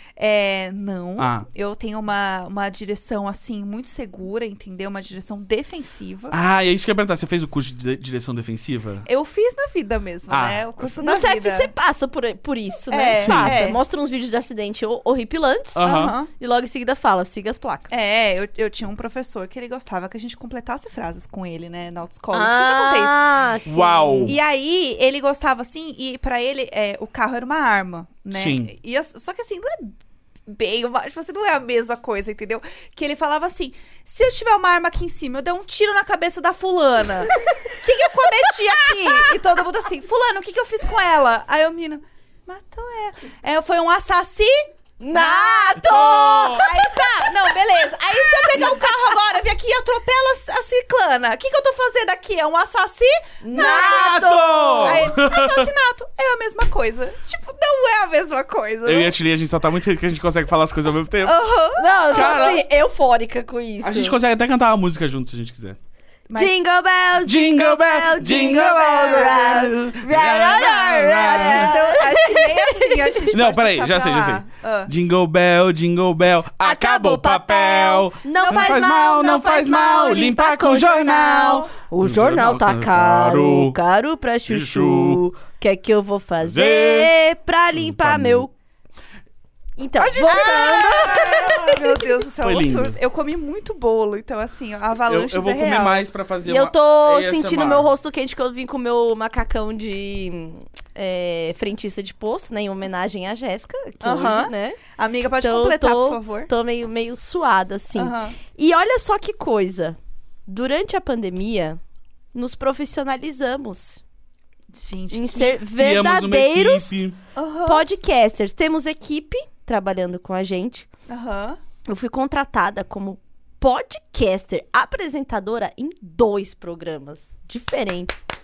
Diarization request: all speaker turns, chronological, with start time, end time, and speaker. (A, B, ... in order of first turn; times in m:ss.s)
0:00.2-0:06.4 A
0:01.2-0:01.4 B
0:06.3-0:09.0 B
0:09.0-0:11.7 A
0:10.3-0:10.7 B
0:11.0-0:17.9 C
0:12.9-0:13.8 A
0:13.2-0:13.7 B
0:15.8-0:16.1 B
0:15.8-0:16.3 A
0:17.9-0:23.2 A
0:22.3-0:24.3 C
0:23.6-0:24.3 B
0:24.2-0:59.1 A
0:28.3-0:28.7 B
0:37.3-0:39.4 C
0:45.0-0:47.2 C
0:45.8-0:46.6 B
0:53.4-0:55.0 C
0:53.5-0:55.7 B
0:58.8-1:01.4 B
1:01.2-1:02.6 A
1:01.8-1:04.2 C
1:02.1-1:02.6 B
1:03.8-1:05.8 B
1:06.3-1:13.2 C
1:07.2-1:11.8 B
1:08.5-1:09.7 A
1:10.6-1:14.9 A
1:13.3-1:23.8 B
1:16.6-1:28.5 C
1:18.4-1:20.3 A
1:24.5-1:25.2 B
1:26.4-1:27.1 B
1:27.7-1:28.4 B
1:29.8-1:32.0 C
1:30.0-1:36.0 A
1:32.4-1:33.0 B
1:35.1-1:37.9 B
1:36.4-1:44.8 C
1:44.0-1:46.5 A
1:45.4-1:51.8 C
1:47.9-1:48.4 A
1:52.3-1:54.0 C
1:54.7-1:55.6 A
1:55.1-1:57.0 C
1:55.8-1:57.2 B
1:57.3-1:57.8 A
1:57.6-2:00.9 C
2:01.1-2:01.6 A
2:01.8-2:08.2 C